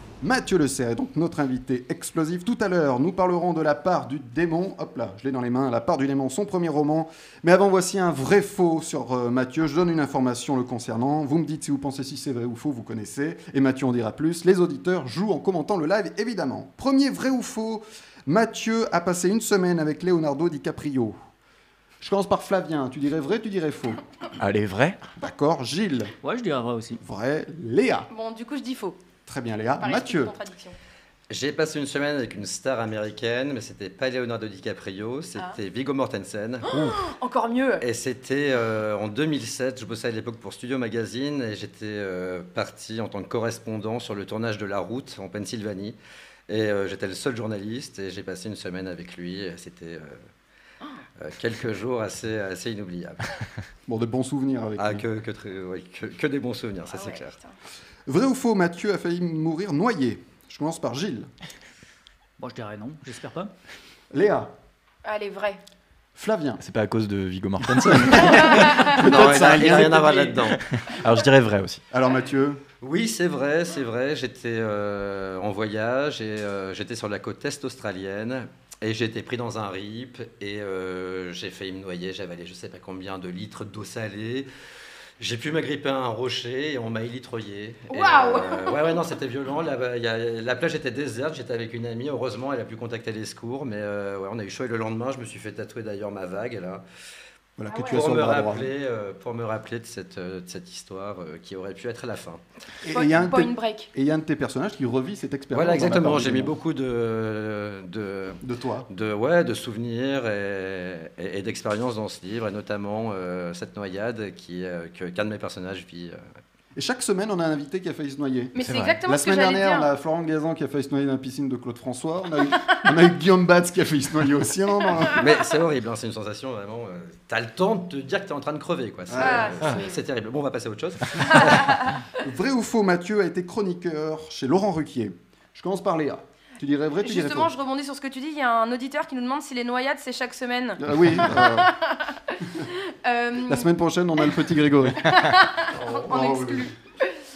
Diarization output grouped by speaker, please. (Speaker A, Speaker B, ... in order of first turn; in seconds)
Speaker A: 0.2-21.1, 22.0-24.0, 25.2-26.1, 27.0-28.1, 29.2-30.3, 53.9-55.0, 58.1-61.3, 64.1-64.5, 66.2-66.6, 68.1-70.0, 71.9-72.6, 97.6-98.7, 102.8-106.5, 108.4-108.9, 116.8-125.3, 129.1-129.8, 132.2-137.5, 140.8-141.7, 143.4-145.1, 146.1-146.6
Speaker B: 24.4-25.0, 66.6-71.8, 118.6-119.0
Speaker C: 26.2-27.0, 62.4-63.5
Speaker D: 28.1-29.0, 29.8-30.8, 36.6-37.8, 56.9-57.5, 65.0-65.6, 87.9-88.9, 97.7-98.0, 102.9-103.9, 118.5-119.9, 129.2-130.0, 131.2-132.0, 137.0-143.7, 145.0-147.2
Speaker E: 31.3-36.8, 37.8-50.2, 51.2-53.3, 54.8-57.4, 68.6-70.6, 72.8-84.5, 85.2-96.8, 97.8-102.4, 105.5-116.2, 125.1-132.0, 145.7-146.4